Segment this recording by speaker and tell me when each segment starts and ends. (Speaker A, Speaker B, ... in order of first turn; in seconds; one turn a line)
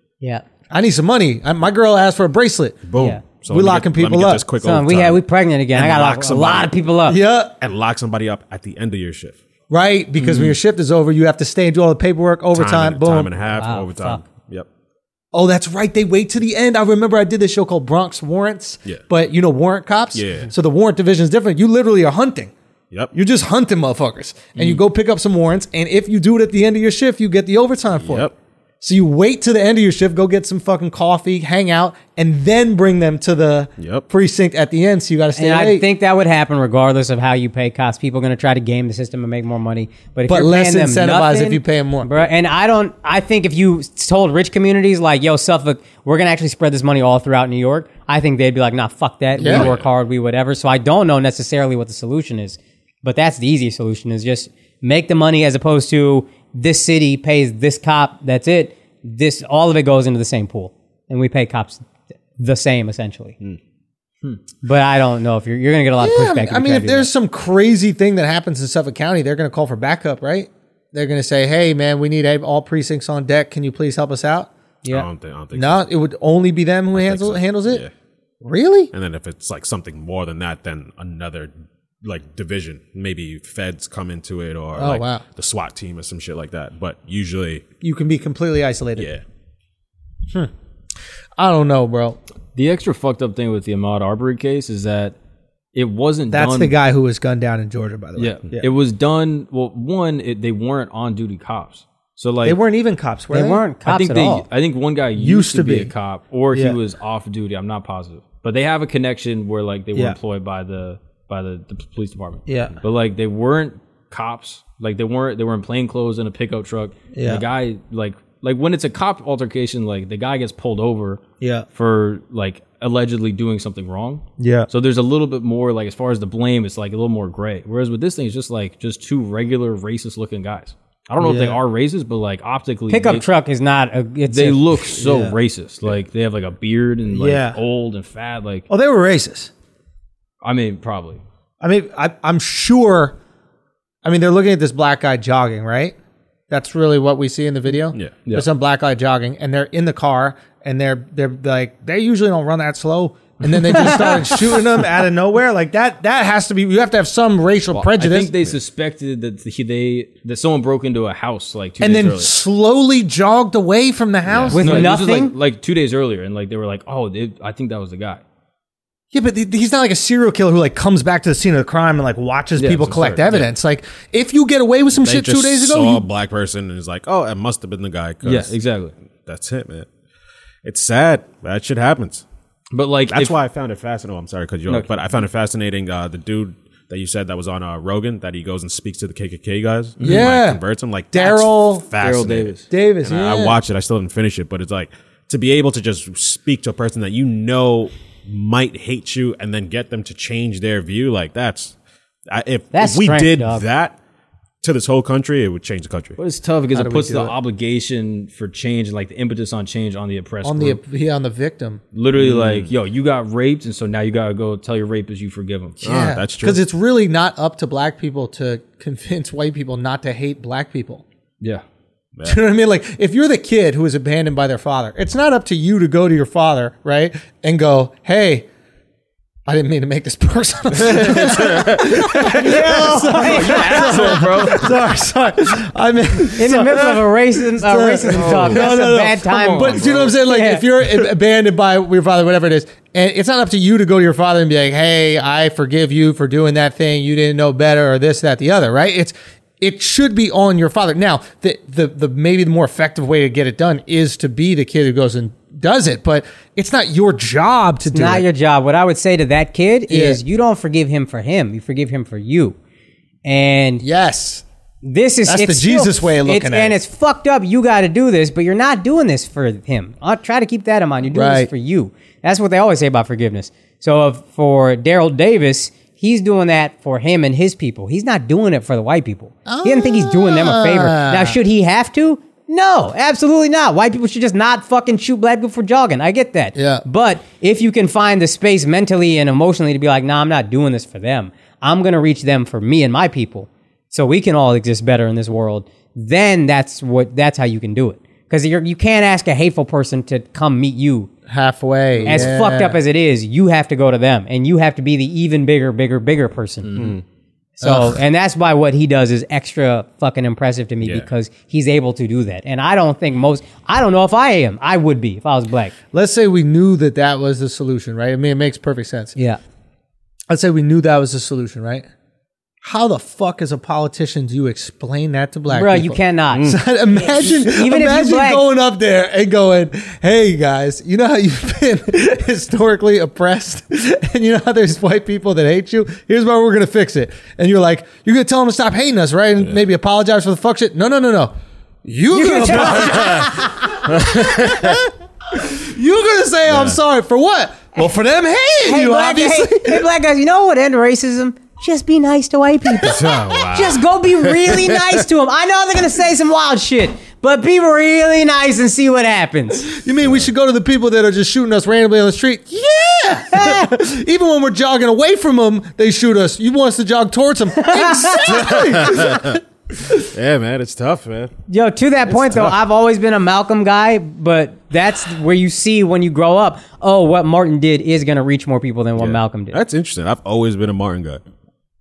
Speaker A: 0.7-2.9
Speaker B: 2.9-6.7
Speaker C: 3.0-3.2
Speaker A: 3.4-4.4
Speaker C: 4.6-7.2
Speaker A: 7.1-7.5
Speaker B: 7.6-9.4
Speaker A: 9.7-13.3
Speaker B: 12.5-14.7
Speaker C: 13.6-14.2
Speaker A: 15.3-22.5
Speaker B: 20.1-20.5
Speaker A: 23.1-28.3
Speaker B: 28.0-28.3
Speaker A: 28.8-35.8
Speaker B: 33.8-34.0
Speaker C: 35.3-61.9
Speaker A: 40.3-42.3
Speaker A: 49.4-49.7
Speaker B: 49.4-49.9
Speaker C: 62.4-63.4
Speaker C: 64.6-67.1
Speaker A: 66.0-74.5
Speaker B: 74.9-75.8
Speaker A: 75.5-77.8
Speaker B: 76.9-77.9
Speaker A: 78.4-78.9
Speaker B: 78.9-87.6
Speaker A: 84.8-85.2
Speaker A: 87.8-89.1
Speaker B: 89.0-89.2
Speaker A: 91.4-92.2
Speaker D: 92.5-95.1
Speaker D: 95.7-96.7
Speaker A: 96.3-98.7
Speaker D: 98.2-102.6
Speaker A: 102.4-103.6
Speaker C: 103.3-104.5
Speaker D: 103.8-121.2
Speaker A: 105.2-105.9
Speaker A: 106.5-106.8
Speaker A: 112.5-112.8
Speaker A: 117.1-117.4
Speaker A: 121.4-121.7
Speaker D: 121.7-133.2
Speaker A: 124.4-124.7
Speaker A: 131.2-131.6
Speaker C: 132.9-134.8
Speaker D: 134.3-138.7
Speaker A: 134.9-135.3
Speaker A: 137.1-137.6
Speaker A: 138.7-139.5
Speaker D: 140.4-141.2
Speaker A: 141.6-143.2
Speaker A: 144.0-145.9
Speaker A: 146.5-158.3
Speaker D: 157.7-162.3
Speaker A: 161.8-164.9
Speaker B: 164.2-164.6
Speaker D: 164.5-168.2
Speaker C: 164.5-165.3
Speaker A: 169.1-176.0
Speaker D: 172.6-173.5
Speaker B: 175.0-178.5
Speaker D: 178.2-178.9
Speaker B: 179.2-179.9
Speaker B: 180.6-182.2
Speaker D: 182.7-183.3
Speaker B: 183.1-201.7
Speaker D: 190.0-190.3
Speaker A: 190.0-190.6
Speaker A: 191.1-191.9
Speaker D: 192.0-192.7
Speaker A: 192.7-193.6
Speaker B: 202.3-203.9
Speaker C: 202.7-203.6
Speaker B: 204.6-206.2
Speaker D: 206.2-210.8
Speaker A: 206.7-207.3
Speaker A: 210.4-211.8
Speaker D: 211.9-215.8
Speaker B: 212.2-212.7
Speaker A: 215.8-221.0
Speaker B: 215.8-216.6
Speaker B: 222.1-222.4
Speaker A: 222.2-228.5
Speaker A: 229.4-258.2
Speaker B: 230.8-232.0
Speaker D: 231.0-231.7
Speaker C: 232.2-234.3
Speaker D: 232.9-234.8
Speaker C: 236.3-240.6
Speaker D: 238.1-238.7
Speaker D: 239.3-240.1
Speaker C: 257.9-262.6
Speaker A: 259.9-260.2
Speaker C: 263.2-263.8
Speaker A: 263.8-264.4
Speaker C: 264.8-301.1
Speaker A: 265.3-266.8
Speaker A: 271.1-271.5
Speaker A: 279.4-281.4
Speaker A: 286.6-286.8
Speaker A: 301.3-302.8
Speaker C: 302.1-306.8
Speaker D: 306.7-306.9
Speaker B: 306.8-307.0
Speaker C: 307.6-315.7
Speaker A: 307.6-308.0
Speaker A: 315.9-319.1
Speaker A: 320.3-321.9
Speaker A: 322.6-341.3
Speaker C: 325.5-328.4
Speaker A: 341.8-349.9
Speaker C: 342.1-343.8
Speaker B: 342.8-343.3
Speaker B: 343.9-344.8
Speaker B: 346.5-346.8
Speaker C: 348.6-359.7
Speaker B: 352.8-355.0
Speaker A: 359.7-369.9
Speaker B: 360.0-360.3
Speaker C: 363.3-363.7
Speaker C: 367.6-368.5
Speaker B: 368.3-371.3
Speaker C: 371.5-379.6
Speaker B: 372.1-372.5
Speaker B: 379.0-381.2